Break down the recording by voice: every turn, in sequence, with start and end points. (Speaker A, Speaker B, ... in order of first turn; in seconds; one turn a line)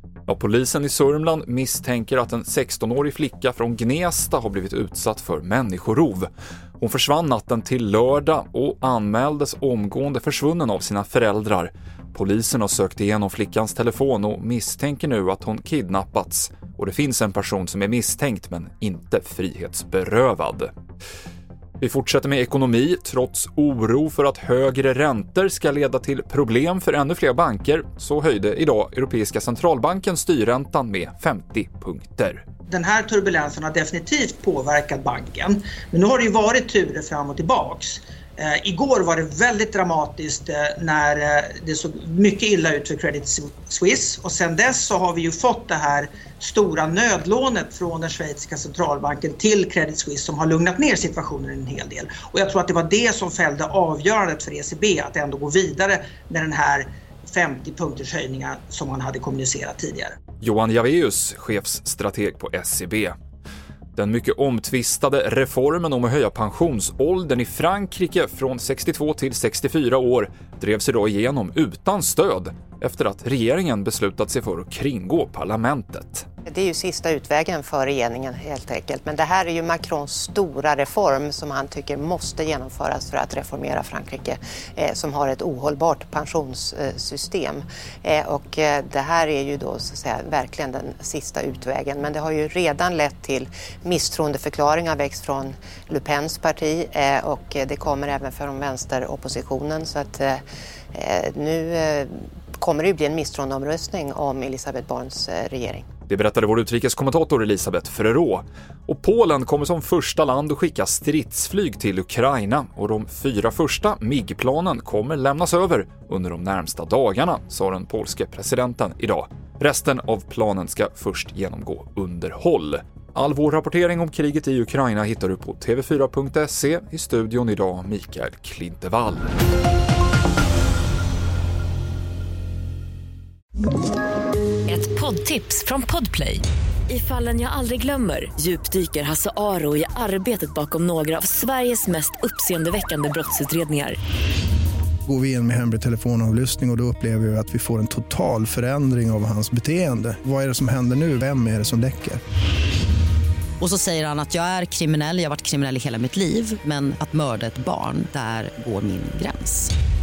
Speaker A: 0.3-20.7
Speaker A: 21.8-32.4
Speaker B: 32.7-60.2
Speaker A: 60.4-63.1
Speaker A: 64.0-76.3
Speaker C: 76.5-100.4
Speaker C: 100.9-105.9
Speaker A: 106.1-129.3
Speaker D: 134.7-144.0
Speaker E: 145.1-152.2
Speaker F: 153.6-159.7